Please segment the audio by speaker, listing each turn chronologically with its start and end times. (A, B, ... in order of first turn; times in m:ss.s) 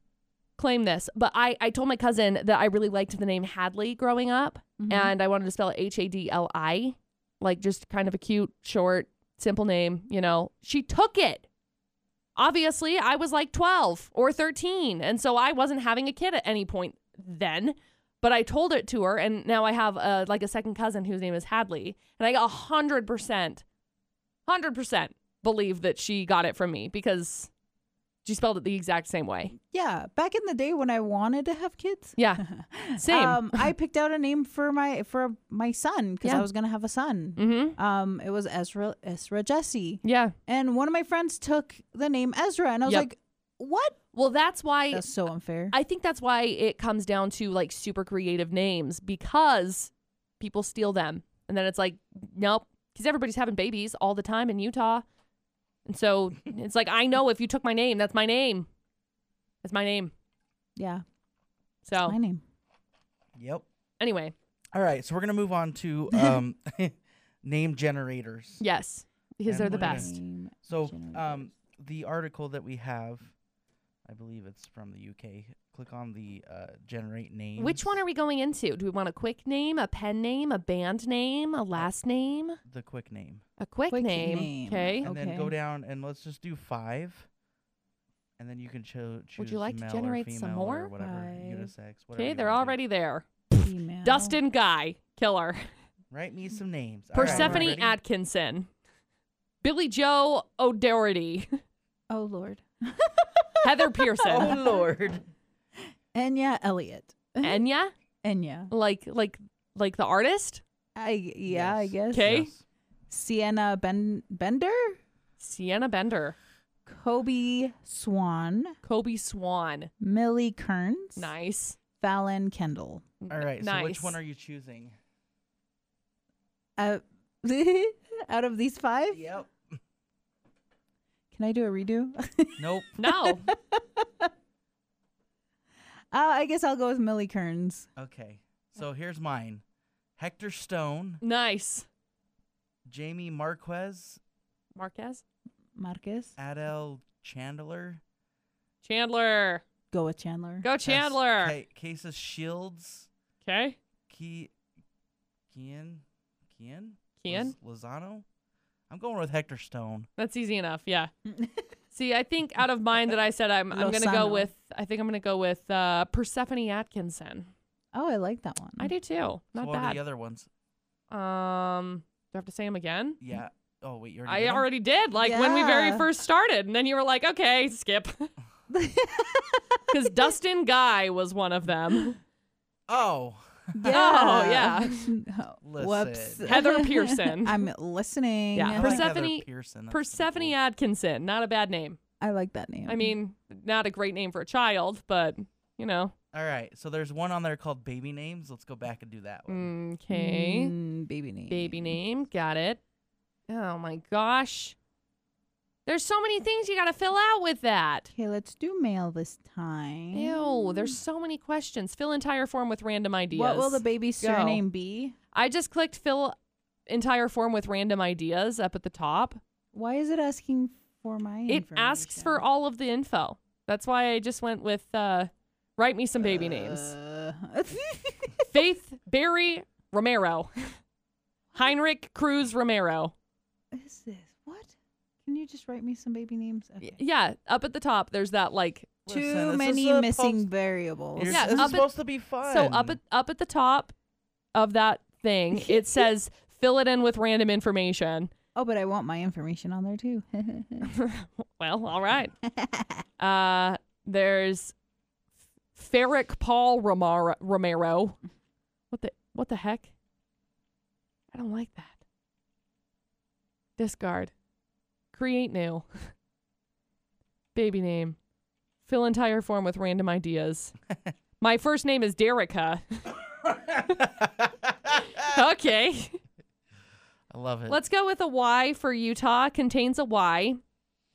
0:00.6-0:11.5 A
0:04.8-0:05.1 B
0:12.4-0:23.6 A
0:24.4-0:27.5 A
0:28.2-0:29.5 A
0:29.7-0:44.0 B
0:32.2-0:32.4 A
0:32.9-0:33.7 A
0:37.4-0:37.8 A
0:40.0-0:40.3 A
0:44.1-0:45.1 A
0:44.9-0:45.8 B
0:45.7-0:55.0 A
0:55.8-0:58.7 A
0:59.6-1:00.1 A
1:00.8-1:01.0 B
1:01.8-1:02.2 A
1:02.0-1:02.4 B
1:03.4-1:03.6 C
1:04.0-1:04.3 A
1:04.7-1:08.6 C
1:06.1-1:06.4 B
1:08.6-1:10.2 A
1:09.4-1:13.3 C
1:09.6-1:11.5 B
1:14.0-1:18.0 C
1:17.6-1:22.6 A
1:22.6-1:23.4 C
1:23.6-1:25.1 A
1:23.9-1:25.5 B
1:25.0-1:27.3 C
1:28.4-1:32.8 C
1:29.4-1:30.9 A
1:31.0-1:31.7 B
1:32.2-1:35.7 A
1:33.6-1:34.4 B
1:36.1-1:38.0 C
1:37.1-1:37.7 B
1:37.1-1:38.7 A
1:39.6-1:41.6 A
1:42.1-1:44.8 B
1:43.6-1:44.6 A
1:44.2-1:45.2 C
1:46.1-1:47.6 B
1:47.4-1:47.9 A
1:48.2-1:48.7 B
1:48.7-1:50.6 A
1:51.0-1:52.3 B
1:51.4-1:52.6 C
1:52.1-1:52.5 A
1:53.1-1:55.0 B
1:55.4-1:56.4 A
1:56.8-1:58.7 B
1:58.8-1:59.9 A
2:00.0-2:01.3 B
2:01.2-2:01.8 A
2:02.0-2:03.0 B
2:03.2-2:04.2 A
2:03.3-2:04.9 C
2:06.8-2:09.2 B
2:09.1-2:09.8 C
2:11.3-2:14.3 B
2:12.6-2:13.0 C
2:13.0-2:13.5 A
2:16.1-2:17.9 B
2:18.0-2:19.6 C
2:20.2-2:21.2 C
2:21.2-2:21.9 A
2:22.9-2:24.2 C
2:24.8-2:25.2 A
2:25.8-2:26.3 B
2:26.4-2:28.0 C
2:28.8-2:29.6 A
2:29.9-2:30.7 B
2:30.6-2:31.6 A
2:30.8-2:33.1 C
2:33.4-2:33.8 A
2:34.1-2:34.5 C
2:35.5-2:38.2 C
2:37.2-2:37.5 A
2:38.9-2:40.1 C
2:40.2-2:41.1 A
2:41.3-2:41.7 B
2:41.9-2:47.5 A
2:43.7-2:44.5 B
2:47.9-2:48.9 B
2:48.8-2:50.0 A
2:49.6-2:50.5 C
2:51.1-2:53.2 A
2:53.2-2:54.7 C
2:54.3-2:58.3 A
2:55.2-2:56.1 B
2:58.7-2:59.8 B
2:59.9-3:02.2 A
3:02.9-3:04.4 C
3:03.7-3:09.1 B
3:03.9-3:05.1 A
3:05.6-3:06.6 C
3:06.4-3:07.6 A
3:08.5-3:12.0 A
3:08.8-3:10.6 C
3:12.2-3:13.2 B
3:12.8-3:16.1 A
3:16.3-3:19.7 C
3:19.5-3:20.7 A
3:20.1-3:22.0 B
3:21.5-3:22.8 A
3:23.5-3:24.8 A
3:25.8-3:28.1 A
3:28.1-3:31.0 B
3:30.1-3:34.6 A
3:33.3-3:35.1 B
3:35.3-3:36.4 A
3:36.9-3:39.4 A
3:39.7-3:42.4 B
3:41.5-3:47.0 A
3:46.2-3:48.5 B
3:48.5-3:50.8 A
3:51.5-3:53.1 A
3:53.7-3:57.0 B
3:56.8-3:58.9 A
3:59.0-4:00.5 C
3:59.1-4:01.8 B
4:01.2-4:03.0 C
4:01.3-4:01.9 A
4:02.4-4:03.9 A
4:04.5-4:08.3 A
4:05.5-4:06.1 B
4:08.5-4:10.9 B
4:10.9-4:12.3 A
4:12.4-4:13.0 B
4:13.2-4:14.7 A
4:15.7-4:18.2 A
4:18.9-4:19.9 A
4:21.3-4:22.0 A
4:23.8-4:24.3 A
4:25.1-4:26.1 A
4:27.5-4:28.2 A
4:28.8-4:30.7 A
4:31.4-4:33.2 A
4:33.6-4:35.1 C
4:35.1-4:36.2 A
4:37.3-4:37.8 C
4:37.7-4:40.6 A